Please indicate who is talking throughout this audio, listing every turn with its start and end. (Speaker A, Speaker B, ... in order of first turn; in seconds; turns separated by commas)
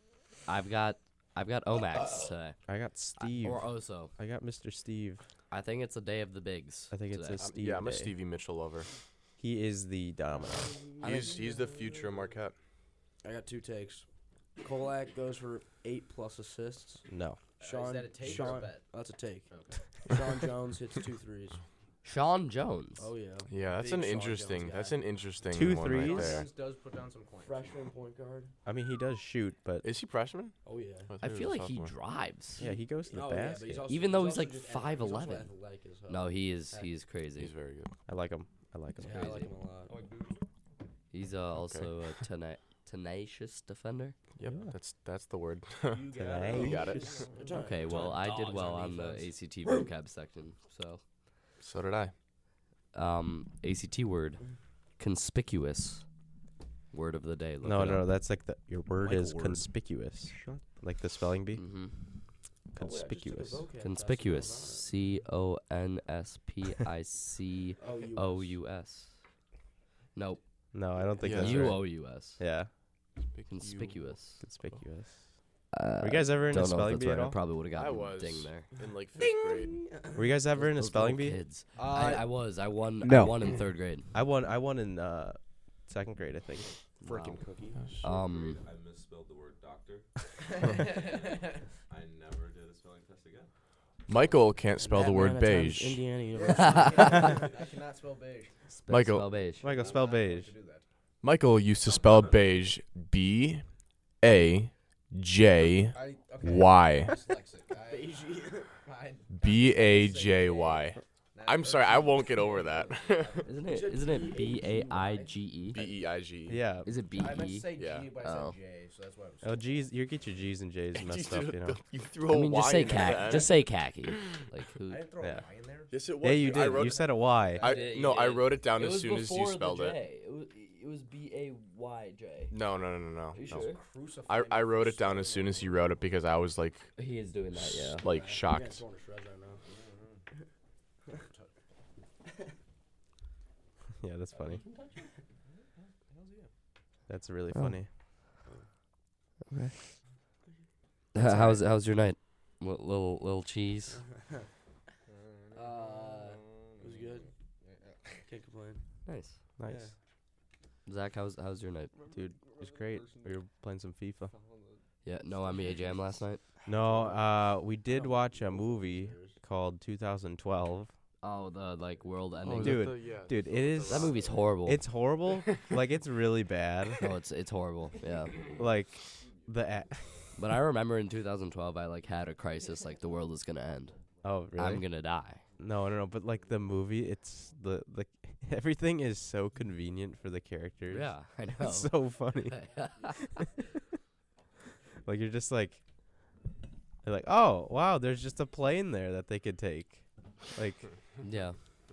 Speaker A: 0.5-2.6, Speaker B: 2.7-5.2, Speaker A: 3.2-4.1, Speaker A: 5.5-7.4, Speaker B: 6.9-8.1, Speaker C: 7.4-8.9, Speaker B: 9.4-10.8, Speaker D: 11.0-11.7, Speaker C: 11.0-12.6, Speaker D: 13.2-14.1, Speaker D: 14.6-17.1, Speaker B: 17.1-17.4, Speaker E: 17.6-18.9, Speaker D: 17.6-19.5, Speaker E: 19.5-19.8, Speaker D: 20.1-21.6, Speaker A: 22.0-23.1, Speaker D: 23.0-25.0, Speaker C: 23.5-26.5, Speaker B: 25.5-26.4, Speaker E: 25.9-27.8, Speaker D: 27.4-28.5, Speaker B: 28.7-29.9, Speaker C: 29.8-30.6, Speaker D: 30.6-31.1, Speaker C: 31.1-31.9, Speaker A: 31.2-32.7, Speaker B: 32.6-33.9, Speaker D: 33.1-36.9, Speaker A: 33.9-35.5, Speaker A: 36.1-37.5, Speaker C: 37.4-37.9, Speaker B: 38.1-39.4, Speaker D: 39.0-40.0, Speaker A: 39.1-39.5, Speaker E: 39.9-40.3, Speaker A: 41.1-44.2, Speaker C: 41.5-41.9, Speaker C: 44.4-47.0, Speaker E: 45.9-49.2, Speaker B: 46.2-47.2, Speaker D: 47.3-49.0, Speaker A: 47.6-51.0, Speaker C: 51.6-52.1, Speaker A: 52.9-54.4, Speaker A: 55.0-56.1, Speaker A: 56.9-58.1, Speaker B: 57.6-61.6, Speaker E: 59.0-59.7, Speaker E: 60.2-60.6, Speaker A: 61.5-62.2, Speaker B: 62.7-63.6, Speaker D: 62.8-64.9, Speaker A: 63.8-69.2, Speaker E: 67.8-68.3, Speaker D: 67.8-68.4, Speaker A: 70.2-70.4, Speaker B: 70.7-72.7, Speaker C: 71.2-71.8, Speaker A: 71.2-72.4, Speaker C: 73.2-74.8, Speaker A: 73.5-74.4, Speaker B: 74.4-75.4, Speaker A: 75.7-78.7, Speaker B: 76.0-77.4, Speaker C: 77.7-79.8, Speaker D: 79.2-80.2, Speaker B: 80.2-81.4, Speaker A: 80.6-84.1, Speaker E: 81.8-82.4, Speaker E: 83.0-83.6, Speaker B: 84.1-86.7, Speaker A: 87.0-87.4, Speaker E: 87.0-87.8, Speaker C: 87.8-88.0, Speaker A: 88.0-88.6, Speaker F: 88.0-90.1, Speaker F: 90.9-91.2, Speaker F: 91.9-93.5, Speaker C: 94.1-96.1, Speaker D: 94.8-97.5, Speaker E: 96.3-98.5, Speaker A: 98.7-99.7, Speaker C: 98.9-99.4, Speaker B: 99.6-100.5, Speaker E: 99.6-100.8, Speaker C: 101.2-103.7, Speaker F: 101.9-102.4, Speaker C: 104.2-107.2, Speaker E: 105.9-115.3, Speaker D: 107.8-108.8, Speaker C: 109.3-113.5, Speaker A: 113.5-115.9, Speaker D: 113.7-115.2, Speaker C: 115.7-116.7, Speaker B: 116.5-116.9, Speaker A: 116.8-118.5, Speaker E: 117.1-119.7, Speaker C: 117.8-118.2, Speaker B: 119.4-121.8, Speaker C: 120.9-123.5, Speaker A: 122.3-125.0, Speaker E: 124.9-127.9, Speaker B: 125.2-125.5, Speaker C: 125.9-130.0, Speaker B: 126.2-127.7, Speaker A: 127.6-132.6, Speaker C: 132.5-133.7, Speaker A: 133.3-133.8, Speaker E: 133.5-136.1, Speaker C: 134.2-136.9, Speaker A: 137.0-138.1, Speaker C: 137.8-138.8, Speaker D: 138.0-139.6, Speaker E: 139.7-140.2, Speaker E: 141.1-141.5, Speaker B: 144.0-144.6, Speaker E: 144.6-146.5, Speaker B: 147.1-147.9, Speaker A: 151.2-154.0, Speaker B: 151.2-151.6, Speaker E: 155.1-158.2, Speaker D: 155.5-157.3, Speaker D: 158.2-158.8, Speaker A: 159.1-159.4, Speaker B: 159.6-159.9, Speaker A: 160.9-161.9, Speaker E: 162.0-163.4, Speaker B: 162.1-164.3, Speaker E: 164.3-164.8, Speaker A: 165.1-166.4, Speaker E: 165.4-165.9, Speaker B: 166.7-170.9, Speaker E: 166.8-167.2, Speaker D: 167.9-169.2, Speaker E: 169.0-169.3, Speaker A: 171.2-173.0, Speaker C: 172.4-174.4, Speaker B: 172.4-177.0, Speaker A: 173.9-174.8, Speaker A: 177.0-178.4, Speaker B: 178.6-180.1, Speaker A: 180.4-184.0, Speaker B: 184.2-184.9, Speaker A: 184.6-185.4, Speaker B: 185.6-193.7, Speaker A: 190.9-193.3, Speaker B: 195.0-195.8, Speaker B: 197.0-200.9, Speaker A: 201.2-201.6